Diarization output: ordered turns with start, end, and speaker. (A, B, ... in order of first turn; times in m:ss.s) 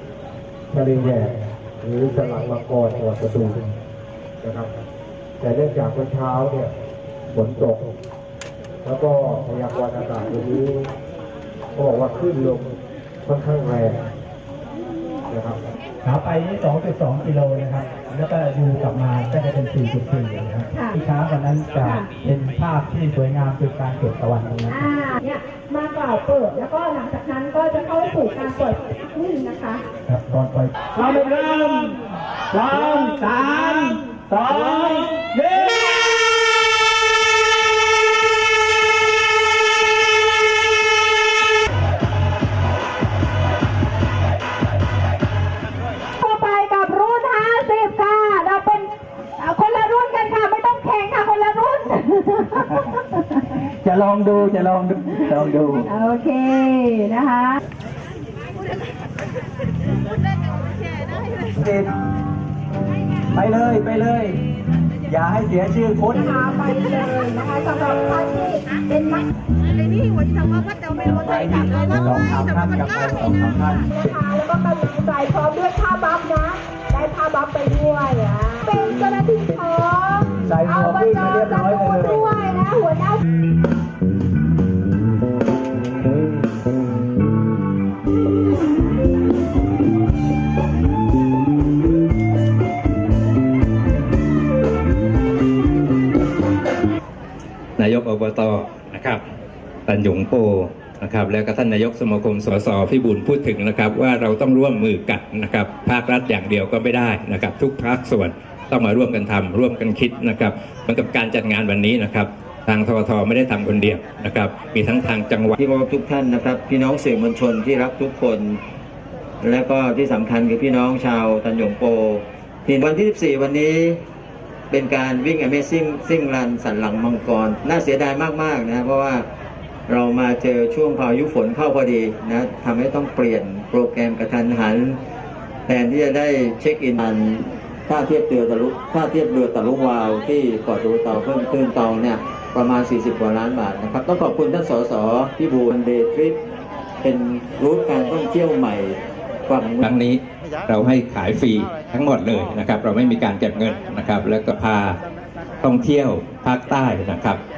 0:00.7-0:03.7 A
0:04.4-0:04.7 A
0:05.4-0:06.7 A
0:07.3-0:07.9 A
0:08.8-0:10.9 A
0:11.8-0:12.7 A
0:13.2-0:14.0 A
0:15.3-0:15.6 A
0:16.0-0:24.9 B
0:21.8-0:22.1 C
0:24.7-0:29.8 C
0:30.0-0:31.4 B
0:31.0-0:31.8 D
0:32.5-0:35.3 B
0:32.7-0:35.1 D
0:46.2-0:52.6 C
0:53.8-0:55.9 D
0:55.8-0:57.6 C
1:01.6-1:01.9 D
1:03.3-1:04.4 D
1:05.1-1:06.4 D
1:06.1-1:09.3 C
1:10.0-1:12.2 E
1:11.2-1:13.9 D
1:13.9-1:23.2 C
1:20.4-1:22.4 D
1:37.8-1:39.2 F
1:39.9-1:55.6 F
1:55.6-1:58.6 G
1:59.4-2:04.0 G
2:04.7-2:09.2 G
2:09.9-2:15.0 G
2:15.7-2:26.4 G
2:27.0-2:29.8 G
2:29.8-2:35.0 F
2:35.6-2:37.4 F